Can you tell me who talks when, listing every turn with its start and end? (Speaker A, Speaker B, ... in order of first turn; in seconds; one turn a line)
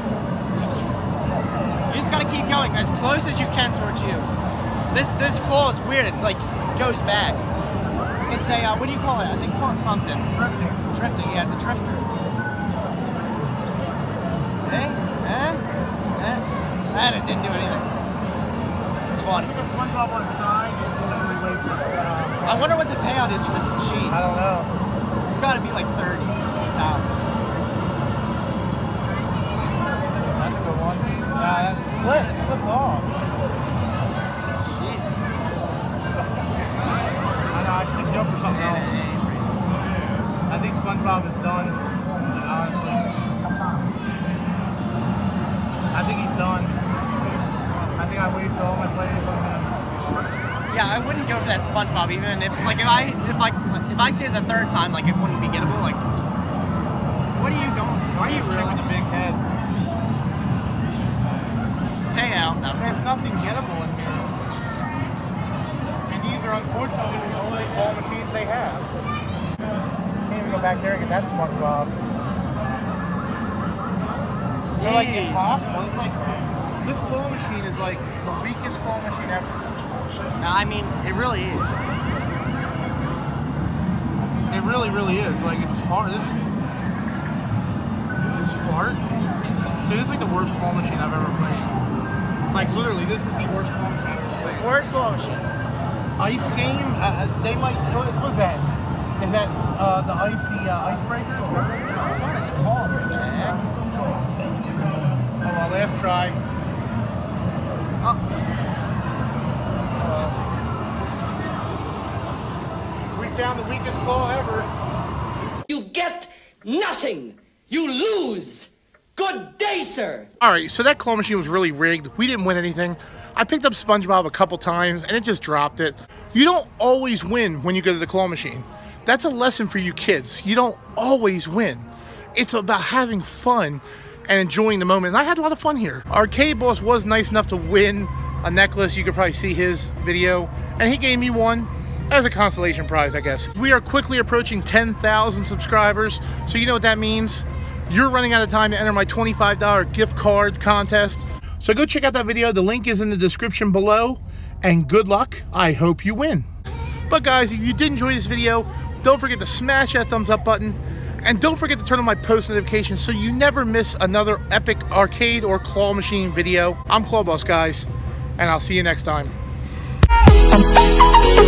Speaker A: 0.5-0.9
Speaker A: 1.9-4.3
Speaker A: 4.9-7.4
Speaker A: 8.3-10.3
Speaker B: 10.3-10.8
Speaker A: 10.9-12.1
Speaker A: 14.6-15.6
Speaker A: 16.2-17.9
Speaker A: 19.1-19.5
Speaker B: 19.3-22.8
Speaker A: 22.4-24.2
Speaker B: 24.1-24.7
Speaker A: 25.2-27.1
Speaker B: 30.3-33.1
Speaker A: 34.6-35.2
Speaker B: 37.5-38.9
Speaker A: 38.5-39.5
Speaker B: 40.5-43.2
Speaker B: 45.9-46.8
Speaker B: 48.0-49.8
Speaker A: 50.7-56.0
Speaker A: 57.3-58.8
Speaker B: 58.1-59.4
Speaker A: 62.1-63.1
Speaker B: 62.8-64.3
Speaker B: 66.1-68.9
Speaker B: 70.3-71.9
Speaker A: 74.8-75.6
Speaker B: 74.8-76.2
Speaker B: 76.8-79.8
Speaker A: 80.4-81.8
Speaker B: 84.5-86.4
Speaker B: 88.2-89.0
Speaker B: 89.8-91.7
Speaker B: 92.5-94.7
Speaker A: 94.4-95.5
Speaker B: 96.2-101.7
Speaker A: 101.9-103.8
Speaker B: 105.4-106.4
Speaker B: 110.0-110.4
Speaker B: 113.1-114.7
Speaker C: 115.7-120.3
Speaker B: 120.4-156.4
Speaker B: 157.1-169.3